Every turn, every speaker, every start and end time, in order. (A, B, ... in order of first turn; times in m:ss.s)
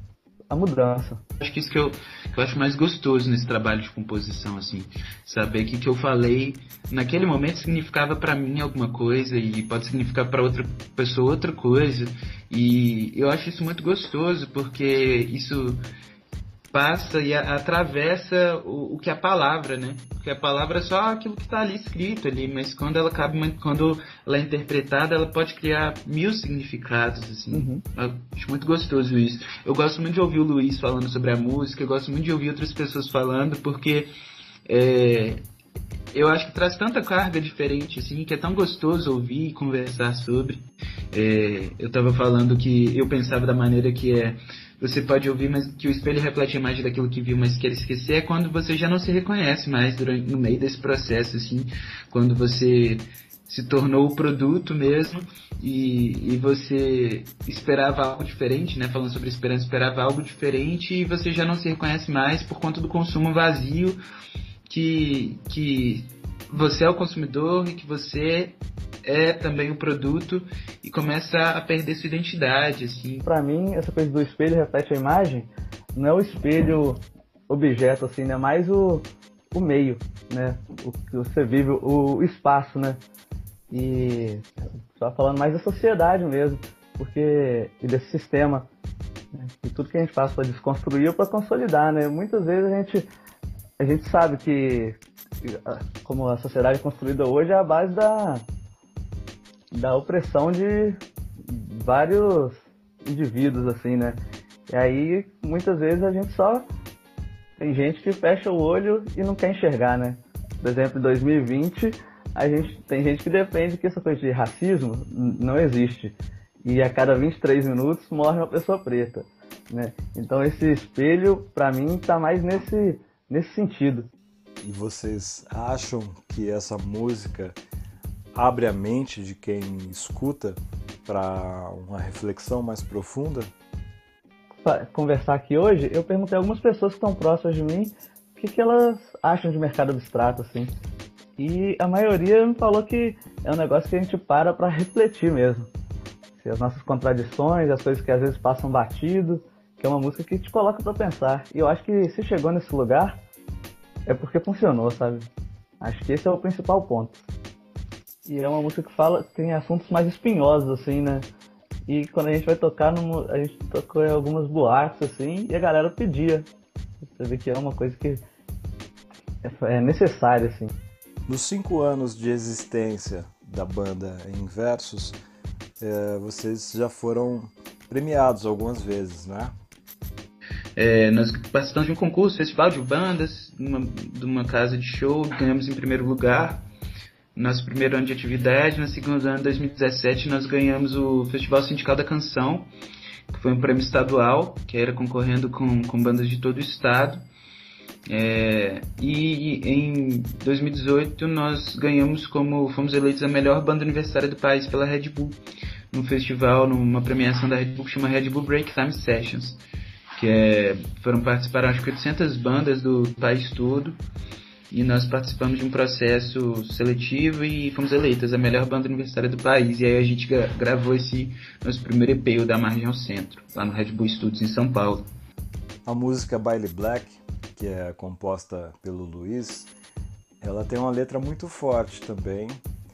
0:00.5-0:01.2 A
0:01.4-0:15.8 B
0:16.7-0:34.1 B
0:27.5-0:27.8 A
0:34.7-0:35.4 B
0:36.2-0:40.6 B
0:41.1-1:04.0 B
1:04.7-1:08.6 B
1:09.1-1:13.2 B
1:13.2-1:23.0 A
1:23.7-1:28.7 A
1:29.3-1:33.1 A
1:33.8-1:38.5 A
1:39.7-1:46.6 A
1:47.6-2:04.1 A
2:04.6-2:07.6 C
2:08.4-2:13.5 C
2:14.6-2:20.7 A
2:21.4-2:25.7 A
2:26.4-2:33.2 A
2:34.1-2:35.3 A
2:35.8-2:37.2 A
2:38.3-2:41.3 A
2:41.9-2:46.5 A
2:47.1-2:48.2 A
2:49.4-2:50.7 A
2:51.3-2:55.2 C
2:55.8-2:59.5 C
3:00.8-3:06.6 B
3:07.4-3:12.7 B
3:13.3-3:17.2 B
3:18.1-3:25.4 B
3:25.9-3:29.6 B
3:30.2-3:34.0 B
3:34.7-3:45.0 B
3:45.9-3:49.7 C
3:50.4-3:52.6 C